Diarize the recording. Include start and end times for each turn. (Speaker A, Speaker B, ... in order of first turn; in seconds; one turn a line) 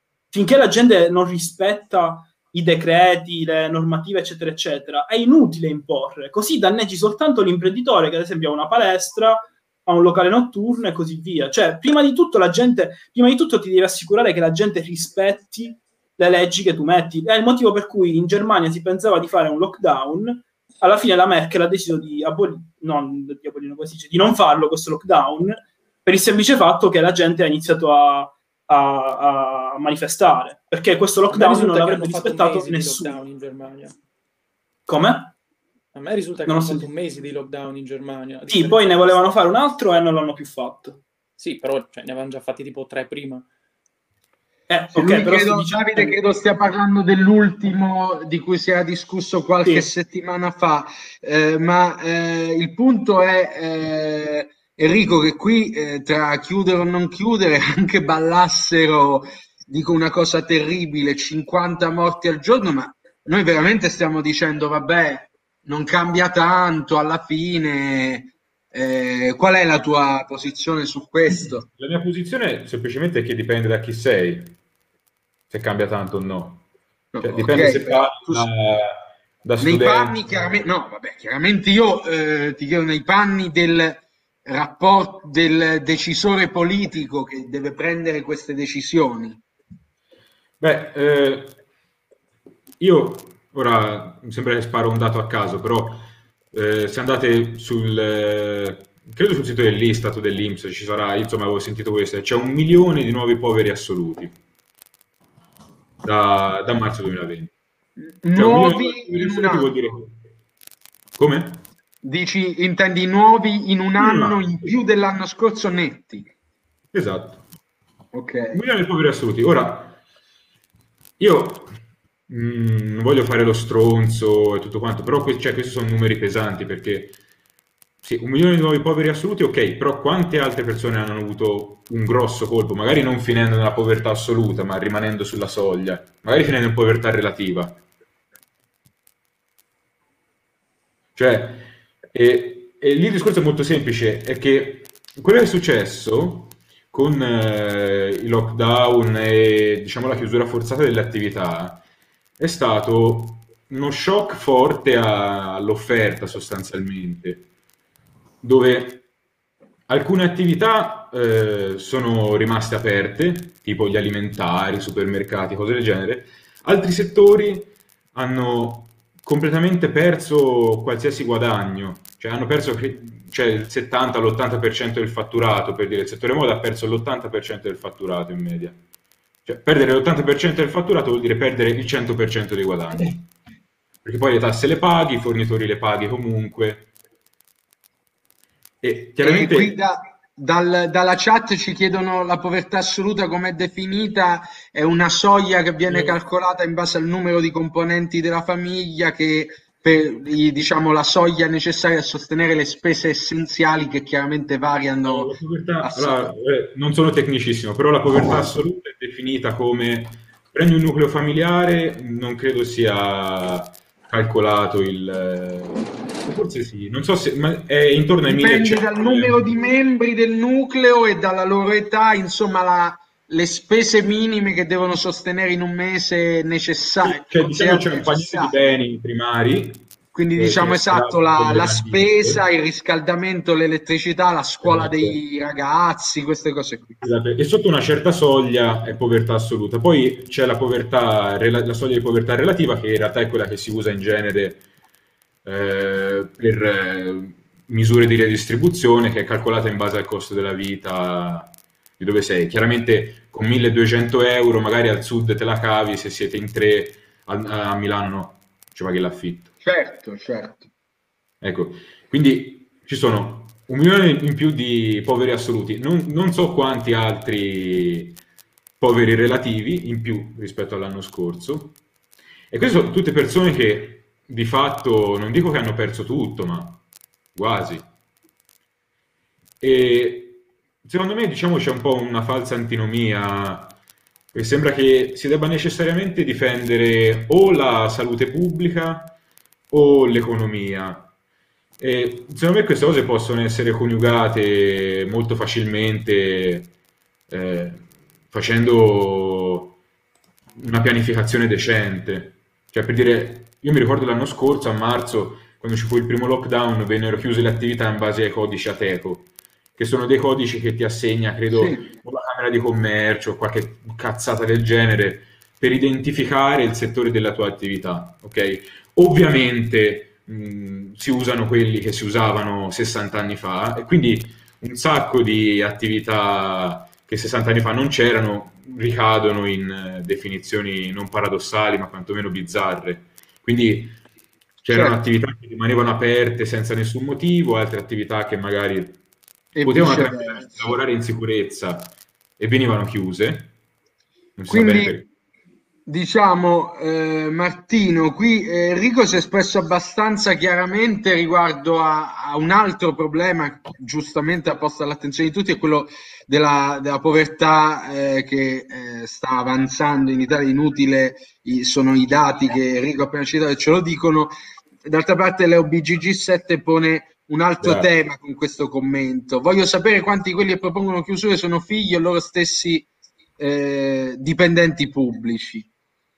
Speaker A: 0.3-33.2
Speaker B: 31.3-33.9
Speaker A: 34.9-35.3
Speaker B: 35.9-39.2
Speaker A: 36.5-36.9
Speaker A: 38.5-41.0
Speaker B: 41.4-43.5
Speaker A: 44.7-46.1
Speaker C: 44.9-71.7
Speaker A: 49.6-49.9
Speaker D: 71.3-74.6
Speaker D: 75.5-76.6
Speaker C: 77.1-78.5
Speaker D: 77.2-80.6
Speaker C: 79.6-89.4
Speaker D: 90.6-91.6
Speaker D: 92.8-104.3
Speaker D: 106.0-107.5
Speaker C: 108.0-109.7
Speaker D: 108.3-110.2
Speaker D: 111.2-111.6
Speaker C: 112.0-116.3
Speaker D: 114.0-114.7
Speaker D: 116.9-117.4
Speaker C: 118.1-118.6
Speaker D: 118.5-120.0
Speaker D: 121.2-121.7
Speaker D: 122.3-127.2
Speaker D: 128.0-137.8
Speaker D: 141.2-151.8
Speaker D: 152.4-157.4
Speaker D: 158.4-159.0
Speaker D: 159.9-178.8
Speaker D: 179.4-183.2
Speaker D: 184.0-186.9
Speaker D: 188.8-189.8
Speaker C: 189.2-206.3
Speaker D: 195.9-196.2
Speaker D: 205.0-219.6
Speaker C: 218.3-228.6
Speaker D: 227.1-232.4
Speaker C: 230.1-237.1
Speaker D: 234.6-235.2
Speaker D: 237.0-244.6
Speaker D: 245.4-259.5
Speaker C: 259.6-260.7
Speaker D: 261.4-268.2
Speaker D: 268.8-271.8
Speaker D: 272.5-276.8
Speaker D: 277.3-277.9
Speaker D: 279.6-283.8
Speaker D: 284.3-289.1
Speaker D: 289.7-291.1
Speaker D: 291.8-296.7
Speaker D: 297.3-299.8
Speaker D: 300.6-334.0
Speaker C: 311.5-311.9
Speaker D: 334.6-339.0
Speaker C: 334.7-335.0
Speaker C: 339.5-340.7
Speaker D: 339.6-343.5
Speaker D: 344.4-345.1
Speaker C: 344.5-345.0
Speaker C: 345.9-364.3
Speaker C: 364.8-372.9
Speaker D: 367.6-367.9
Speaker C: 373.4-375.7